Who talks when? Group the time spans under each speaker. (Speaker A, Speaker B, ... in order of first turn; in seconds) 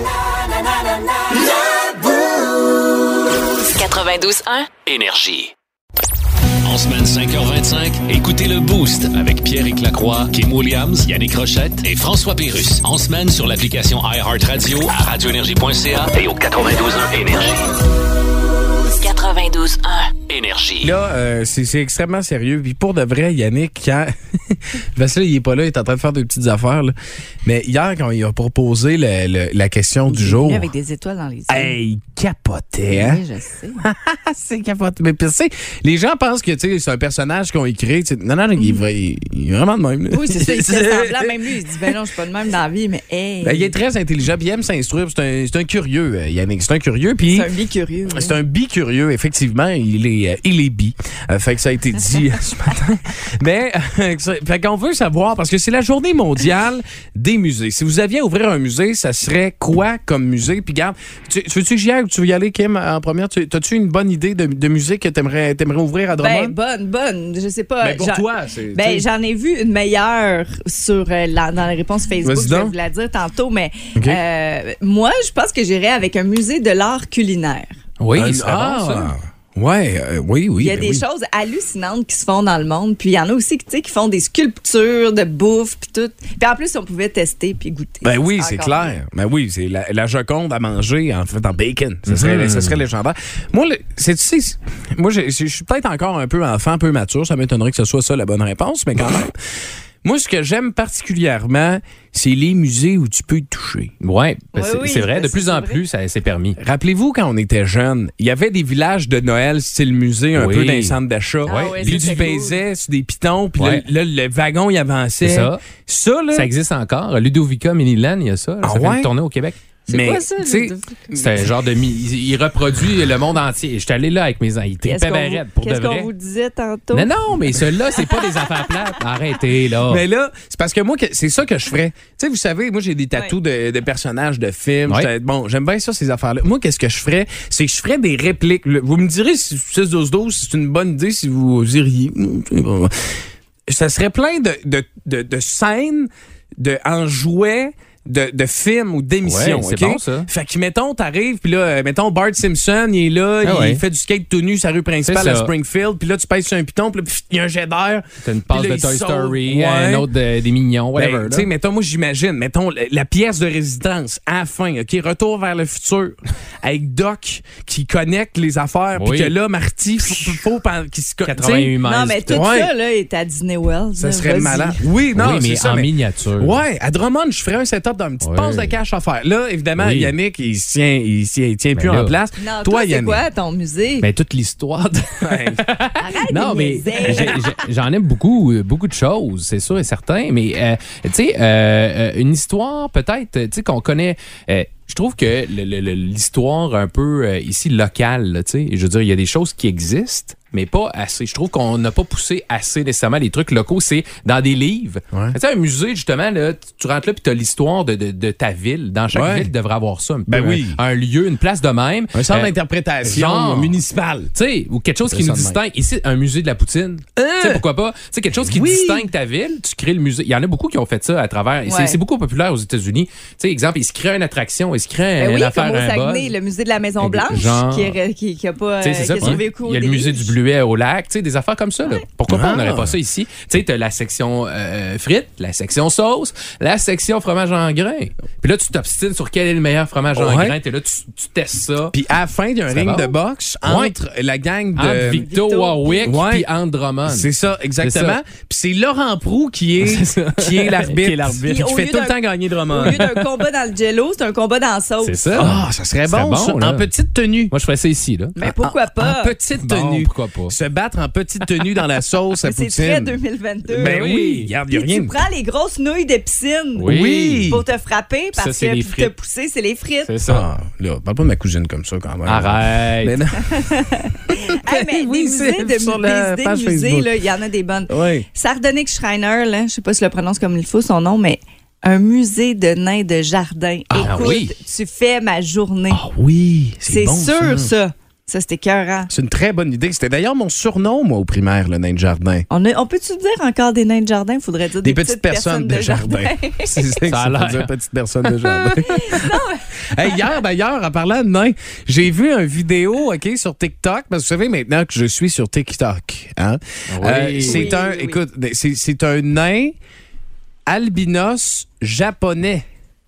Speaker A: 3.6-4.7, 19.0-20.1
Speaker B: 4.8-5.5, 6.6-17.7, 20.3-20.9
Speaker C: 20.8-30.7, 31.5-33.2, 33.8-42.0, 43.4-47.5, 48.1-66.5, 67.8-69.1, 72.2-72.7, 74.0-74.2, 78.1-81.0, 88.0-99.4, 100.0-103.9, 106.6-116.5, 118.6-119.1, 119.9-121.5, 129.8-160.1, 160.9-171.8, 172.3-172.7, 173.9-183.2, 185.2-185.6, 205.1-205.4, 209.1-209.5, 210.3-210.8, 212.1-214.3, 215.1-215.6, 217.2-217.6, 218.4-219.1, 232.3-232.9, 240.2-240.6, 241.9-245.2, 246.0-246.5, 247.0-253.0, 255.3-257.5, 258.4-263.2, 263.7-265.2, 266.9-267.6, 270.2-273.6, 274.3-277.1, 277.9-278.2, 283.9-284.3, 285.9-287.7, 289.1-292.4, 294.8-309.7, 310.7-312.6
Speaker D: 30.1-31.7, 32.9-33.9, 40.1-43.7, 47.3-48.4, 66.2-77.8, 80.6-88.9, 104.5-105.8, 111.4-112.6, 119.9-121.1, 124.8-127.1, 128.1-128.6, 171.8-174.9, 182.4-184.1, 186.0-187.4, 221.7-222.0, 225.2-230.3, 245.1-246.1, 251.4-255.4, 258.4-259.3, 262.4-264.0, 264.7-266.9, 267.5-270.1, 273.5-286.0, 286.9-289.1, 292.5-296.8, 298.6-300.1, 307.4-308.2
Speaker E: 78.0-79.1, 92.1-92.8, 104.0-106.6, 110.3-112.2, 115.2-115.6, 116.3-119.6, 121.1-126.1, 126.9-130.0, 149.2-150.3, 153.4-153.8, 155.0-155.5, 158.2-161.5, 168.9-169.3, 171.2-172.4, 175.1-176.6, 178.2-178.7, 179.8-180.1, 181.7-182.2, 184.0-212.5, 213.0-213.8, 214.3-226.3, 227.0-228.0, 228.8-241.9, 242.7-243.9, 244.8-247.3, 247.8-248.2, 249.8-251.5, 252.8-253.3, 255.0-256.9, 257.5-258.4, 259.6-260.6, 263.7-264.5, 266.8-267.5, 268.4-269.1, 270.1-270.4, 272.2-273.2, 283.9-284.5, 297.1-297.7, 306.9-307.7